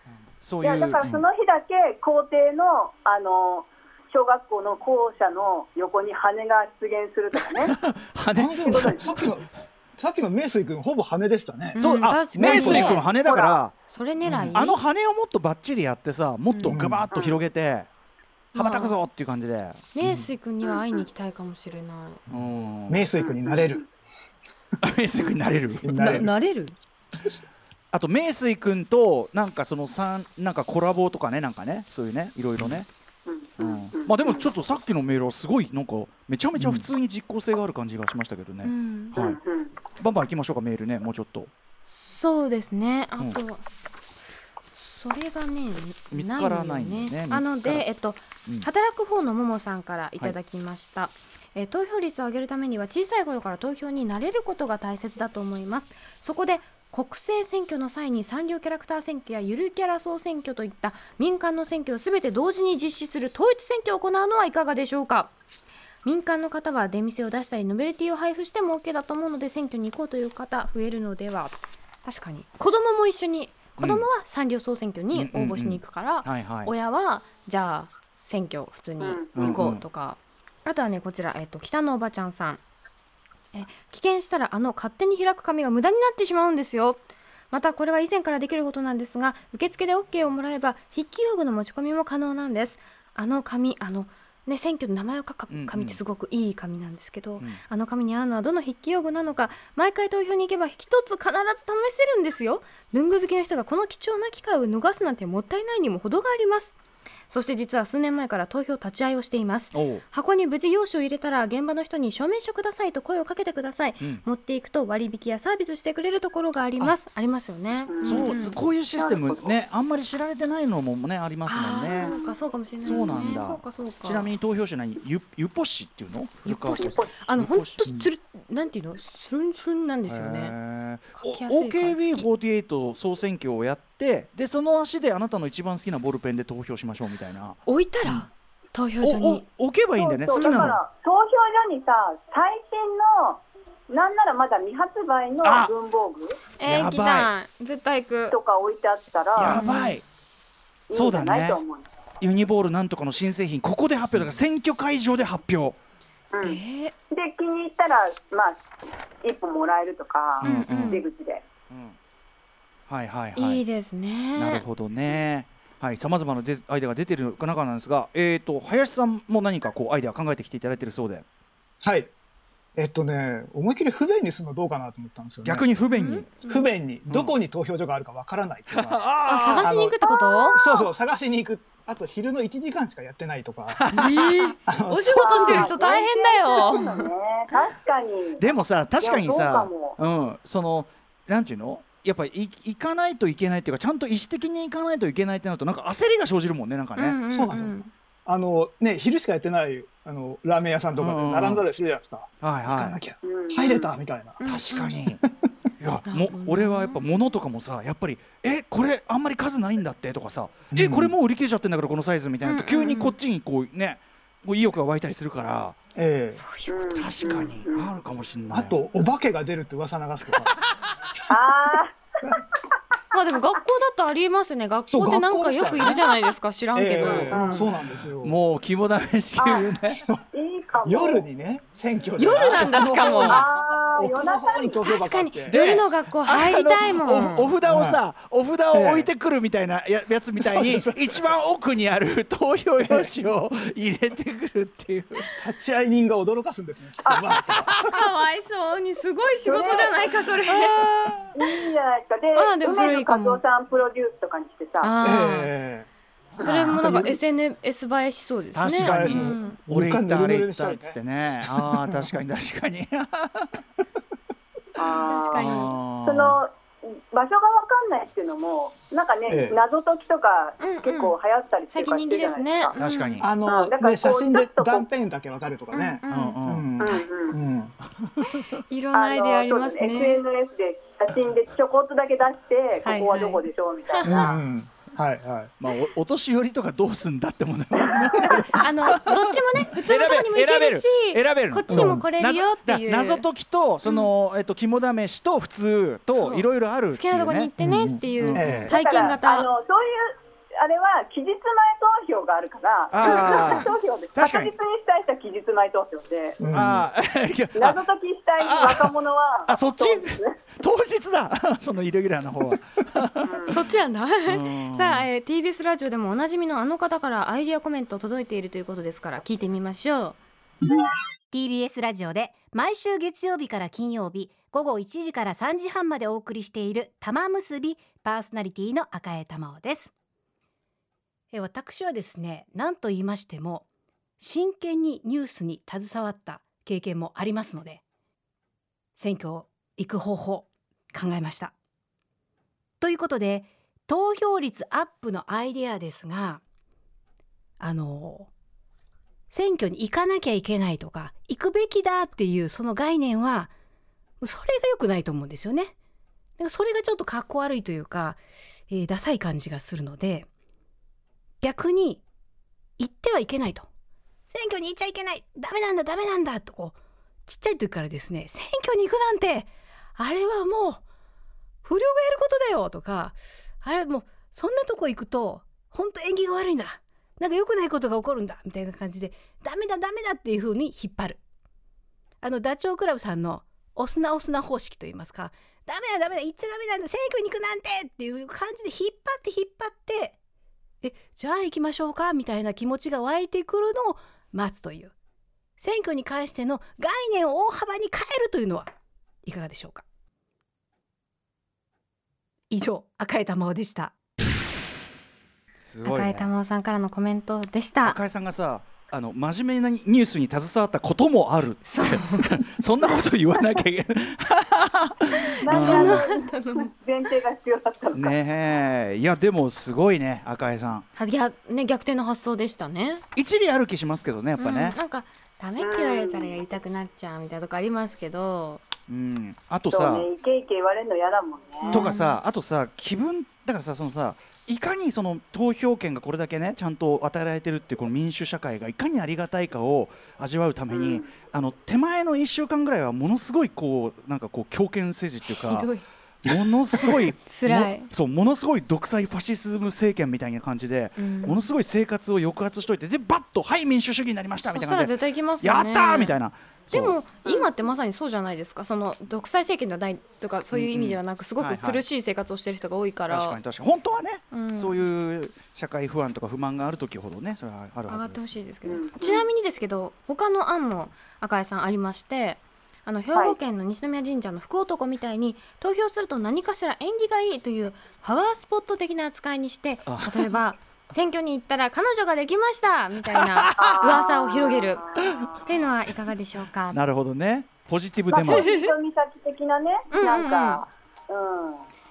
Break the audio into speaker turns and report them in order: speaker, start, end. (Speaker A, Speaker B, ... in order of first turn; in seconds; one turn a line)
Speaker A: 0.4-1.2
Speaker B: 0.6-7.8
Speaker A: 7.7-9.3
Speaker C: 8.3-11.8
Speaker B: 8.6-9.2
Speaker D: 11.7-13.0
Speaker A: 11.8-13.7
Speaker C: 12.3-13.0
Speaker B: 12.7-13.6
Speaker D: 13.9-14.8
Speaker C: 14.2-14.6
Speaker A: 14.5-17.9
Speaker D: 16.5-16.8
Speaker C: 16.6-17.0
Speaker B: 17.1-17.4
Speaker D: 18.5-18.9
Speaker A: 18.5-19.8
Speaker D: 19.9-22.2
Speaker B: 20.6-21.0
Speaker A: 22.3-23.1
Speaker C: 22.3-23.8
Speaker B: 23.2-23.9
Speaker A: 24.8-26.3
Speaker C: 25.8-26.3
Speaker D: 26.0-26.7
Speaker A: 27.9-32.9
Speaker B: 33.2-34.5
Speaker A: 33.6-39.4
Speaker C: 36.6-36.9
Speaker D: 38.6-39.1
Speaker B: 39.1-39.7
Speaker A: 40.0-41.5
Speaker D: 41.9-43.6
Speaker D: 44.7-65.3
Speaker A: 46.1-47.8
Speaker D: 66.0-82.6
Speaker A: 73.8-74.1
Speaker A: 75.1-76.7
Speaker B: 79.0-79.6
Speaker A: 79.3-79.8
Speaker D: 83.5-106.7
Speaker A: 95.5-96.0
Speaker D: 107.3-118.6
Speaker A: 109.7-110.0
Speaker B: 117.9-119.5
Speaker A: 118.0-122.1
Speaker D: 121.5-124.3
Speaker B: 121.8-122.3
Speaker A: 122.8-127.9
Speaker B: 122.8-123.1
Speaker D: 126.5-130.5
Speaker B: 126.8-127.1
Speaker A: 130.1-137.6
Speaker D: 131.2-132.3
Speaker D: 137.7-139.4
Speaker A: 139.0-140.8
Speaker B: 140.0-146.4
Speaker D: 140.3-140.7
Speaker A: 145.4-145.7
Speaker D: 146.6-148.4
Speaker A: 146.6-147.3
Speaker B: 148.3-149.6
Speaker A: 149.3-150.0
Speaker D: 149.5-150.0
Speaker B: 150.9-151.8
Speaker A: 150.9-151.6
Speaker A: 152.2-155.8
Speaker B: 156.3-156.6
Speaker D: 156.4-156.9
Speaker B: 157.1-158.6
Speaker B: 159.2-161.4
Speaker A: 160.4-161.0
Speaker D: 160.4-161.0
Speaker A: 161.7-162.0
Speaker A: 162.9-163.6
Speaker D: 163.3-164.6
Speaker A: 164.3-171.2
Speaker C: 171.8-172.1
Speaker C: 172.8-175.7
Speaker A: 175.4-176.3
Speaker D: 175.9-176.7
Speaker C: 176.4-180.0
Speaker A: 177.1-177.3
Speaker A: 178.7-179.7
Speaker D: 179.2-180.6
Speaker B: 180.1-180.9
Speaker C: 180.5-183.8
Speaker A: 183.7-184.3
Speaker D: 183.9-187.6
Speaker C: 184.7-185.7
Speaker B: 185.1-190.0
Speaker A: 188.4-197.2
Speaker D: 196.9-197.9
Speaker C: 197.3-205.3
Speaker A: 201.0-201.6
Speaker A: 202.4-202.9
Speaker B: 203.2-203.9
Speaker D: 204.4-204.9
Speaker A: 204.4-205.2
Speaker A: 205.8-215.8
Speaker D: 206.1-207.0
Speaker C: 210.7-211.1
Speaker D: 212.4-213.2
Speaker C: 215.9-216.4
Speaker D: 216.3-217.5
Speaker B: 216.7-217.9
Speaker A: 216.9-218.8
Speaker C: 218.5-220.6
Speaker B: 221.3-222.0
Speaker D: 223.1-227.7
Speaker C: 224.9-226.0
Speaker C: 226.7-228.4
Speaker B: 227.0-227.7
Speaker A: 228.2-230.0
Speaker B: 229.4-229.7
Speaker B: 230.3-231.2
Speaker C: 230.8-235.6
Speaker D: 232.2-233.4
Speaker A: 232.3-233.3
Speaker B: 233.2-234.8
Speaker D: 234.8-237.5
Speaker A: 235.5-245.2
Speaker C: 237.7-238.0
Speaker C: 238.7-239.1
Speaker C: 240.4-241.3
Speaker C: 242.8-243.1
Speaker C: 245.4-247.9
Speaker B: 247.0-247.3
Speaker D: 247.8-250.9
Speaker B: 249.4-250.1
Speaker A: 250.5-251.3
Speaker B: 251.3-254.9
Speaker D: 252.3-253.4
Speaker D: 254.8-255.5
Speaker C: 255.0-255.9
Speaker D: 256.4-259.6
Speaker A: 256.4-256.8
Speaker C: 256.7-257.2
Speaker A: 258.5-263.5
Speaker C: 258.7-262.1
Speaker B: 264.8-272.7
Speaker D: 265.1-265.7
Speaker A: 265.4-266.4
Speaker C: 269.3-269.6
Speaker D: 270.6-271.1
Speaker D: 271.7-273.2
Speaker A: 272.8-273.3
Speaker C: 273.2-277.8
Speaker B: 273.4-274.9
Speaker D: 275.7-277.0
Speaker A: 276.1-276.7
Speaker B: 276.8-277.4
Speaker A: 278.0-278.5
Speaker D: 278.3-280.2
Speaker B: 278.9-284.4
Speaker D: 282.8-284.3
Speaker C: 284.0-285.5
Speaker A: 285.6-289.2
Speaker D: 288.3-293.3
Speaker A: 289.8-297.5
Speaker C: 291.7-292.0
Speaker D: 293.8-294.1
Speaker D: 296.1-299.5
Speaker C: 297.6-298.7
Speaker A: 298.2-298.7
Speaker B: 298.7-306.4
Speaker A: 302.9-304.5
Speaker D: 303.0-303.7
Speaker C: 306.4-306.9
Speaker A: 306.5-307.8
Speaker B: 307.5-310.4
Speaker A: 308.4-308.9
Speaker A: 309.5-313.6
Speaker B: 313.2-313.6
Speaker D: 313.5-320.2
Speaker A: 314.2-315.1
Speaker E: 321.3-329.9
Speaker E: 331.3-333.6
Speaker E: 334.2-337.8
Speaker E: 339.0-341.5
Speaker E: 342.8-346.4
Speaker E: 347.6-348.3
Speaker E: 349.3-353.5
Speaker E: 354.2-355.7
Speaker E: 356.4-360.3
Speaker E: 361.4-362.0
Speaker E: 362.8-363.7
Speaker E: 364.3-366.8
Speaker E: 367.3-370.8
Speaker E: 371.6-381.2
Speaker E: 382.2-390.2
Speaker E: 390.8-394.9
Speaker E: 395.6-398.7
Speaker E: 399.2-399.8
Speaker E: 402.5-403.9
Speaker A: 405.6-406.3
Speaker D: 405.8-408.0
Speaker A: 407.8-416.1
Speaker D: 411.6-412.2
Speaker D: 415.1-416.7
Speaker B: 415.4-418.2
Speaker A: 417.9-420.9
Speaker D: 420.9-423.0
Speaker A: 423.1-424.8
Speaker D: 424.4-428.6
Speaker B: 425.6-426.4
Speaker A: 428.9-430.1
Speaker B: 429.7-431.9
Speaker D: 431.6-432.2
Speaker A: 431.7-445.7
Speaker B: 440.7-441.1
Speaker D: 445.5-445.8
Speaker A: 446.2-457.0
Speaker D: 446.8-447.9
Speaker D: 451.0-451.4
Speaker D: 454.4-456.1
Speaker D: 456.7-463.4
Speaker B: 457.2-457.5
Speaker A: 460.5-461.8
Speaker A: 463.1-468.3
Speaker D: 464.3-464.8
Speaker D: 467.9-484.9
Speaker B: 468.6-469.2
Speaker A: 479.9-480.3
Speaker A: 483.1-484.0
Speaker B: 483.6-485.4
Speaker A: 485.0-485.4
Speaker D: 485.4-486.8
Speaker A: 486.7-488.5
Speaker B: 488.1-491.6
Speaker D: 488.2-488.7
Speaker D: 489.9-490.6